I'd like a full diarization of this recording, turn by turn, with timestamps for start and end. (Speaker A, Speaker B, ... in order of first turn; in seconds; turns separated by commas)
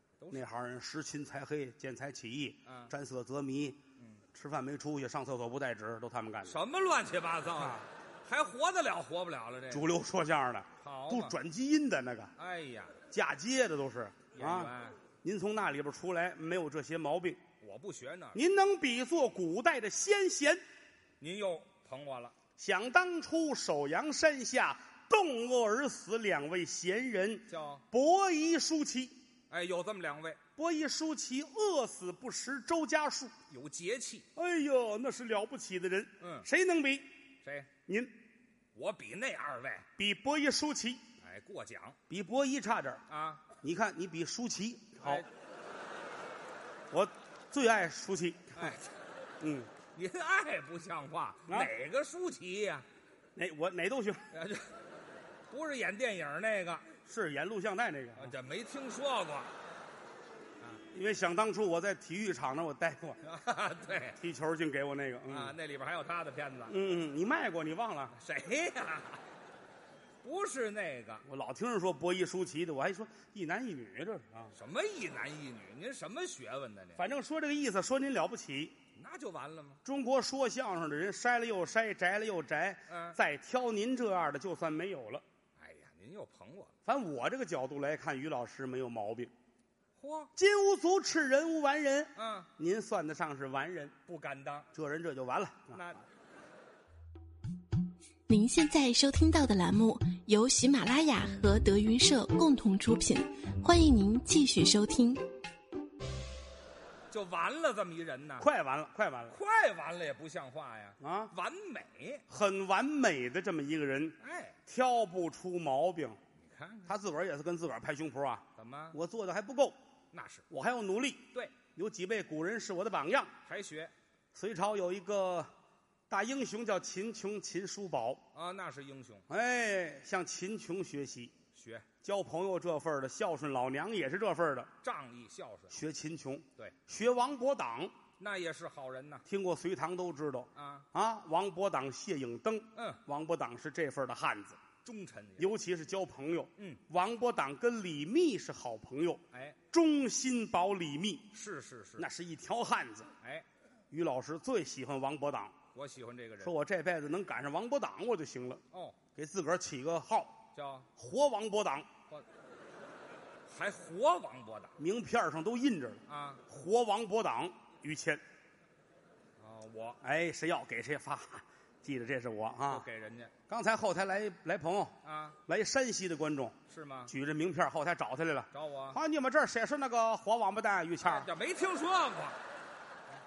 Speaker A: 0.2-0.4, Speaker B: 0.3-3.8, Speaker A: 2.6-2.9, Speaker B: 4.3-6.6, Speaker A: 6.5-9.9, Speaker B: 7.6-7.8, Speaker B: 9.7-12.3, Speaker A: 10.8-11.3, Speaker A: 12.4-13.0, Speaker B: 13.1-14.7, Speaker A: 14.3-14.9, Speaker B: 15.2-17.4, Speaker A: 17.6-18.4, Speaker B: 18.3-20.6, Speaker A: 21.2-22.4, Speaker B: 22.6-29.2, Speaker A: 27.5-27.8, Speaker A: 29.5-30.4, Speaker B: 30.6-33.3, Speaker A: 33.5-34.3, Speaker B: 34.4-37.1, Speaker A: 36.2-36.5, Speaker A: 37.4-37.7, Speaker B: 37.9-38.1, Speaker A: 38.7-39.9, Speaker B: 40.0-41.0, Speaker A: 41.2-42.0, Speaker B: 42.1-43.0, Speaker A: 43.1-43.4, Speaker B: 43.6-45.2, Speaker B: 46.9-48.8, Speaker A: 48.5-48.9, Speaker B: 49.4-49.7, Speaker A: 49.9-52.9, Speaker B: 53.4-54.3, Speaker A: 54.3-54.7, Speaker A: 55.5-56.8, Speaker B: 57.0-58.3, Speaker A: 58.2-59.5, Speaker B: 60.9-63.2, Speaker A: 63.2-64.2, Speaker B: 64.1-65.5, Speaker A: 65.3-66.7, Speaker B: 66.7-68.1, Speaker A: 68.1-69.2, Speaker A: 70.2-71.2, Speaker B: 71.2-74.5, Speaker A: 74.5-77.0, Speaker B: 77.0-78.7, Speaker A: 78.9-79.8, Speaker B: 79.8-85.2, Speaker A: 82.9-83.2, Speaker A: 85.6-86.8, Speaker B: 86.8-89.3, Speaker A: 90.0-90.3, Speaker B: 90.3-93.9, Speaker A: 92.2-92.5, Speaker A: 94.0-94.7, Speaker B: 94.7-95.8, Speaker A: 95.7-96.0, Speaker C: 98.3-105.2, Speaker A: 107.1-108.5, Speaker B: 108.4-109.3, Speaker A: 109.3-112.2, Speaker B: 111.0-111.3, Speaker B: 112.3-116.2, Speaker A: 114.2-114.6, Speaker A: 116.4-116.9, Speaker B: 116.8-119.8, Speaker A: 118.6-119.0, Speaker A: 120.1-120.4, Speaker B: 120.5-123.3, Speaker A: 123.5-123.9, Speaker B: 124.3-125.5, Speaker B: 126.1-128.2, Speaker A: 128.3-129.2, Speaker B: 129.3-131.3, Speaker A: 131.5-131.9, Speaker B: 132.0-134.7, Speaker A: 134.8-135.8, Speaker B: 135.7-137.9, Speaker A: 138.2-139.2, Speaker B: 139.2-144.6, Speaker A: 140.6-140.8, Speaker A: 142.7-143.0, Speaker A: 144.8-145.5, Speaker B: 145.4-151.3, Speaker A: 149.3-149.6, Speaker A: 151.3-152.1, Speaker B: 152.0-153.1, Speaker A: 153.2-153.4, Speaker B: 153.9-155.5, Speaker A: 155.7-156.5, Speaker B: 156.4-158.6, Speaker A: 158.7-159.0, Speaker B: 159.2-160.4, Speaker A: 160.5-160.9, Speaker B: 161.0-161.9, Speaker A: 163.5-164.7, Speaker B: 164.8-168.2, Speaker A: 166.1-166.4, Speaker A: 169.4-170.0, Speaker B: 170.0-172.8, Speaker A: 172.7-173.3, Speaker B: 173.5-174.9, Speaker A: 175.0-175.4, Speaker B: 175.5-176.6, Speaker A: 176.7-177.1, Speaker B: 177.1-181.3, Speaker A: 178.5-179.0, Speaker A: 181.0-182.4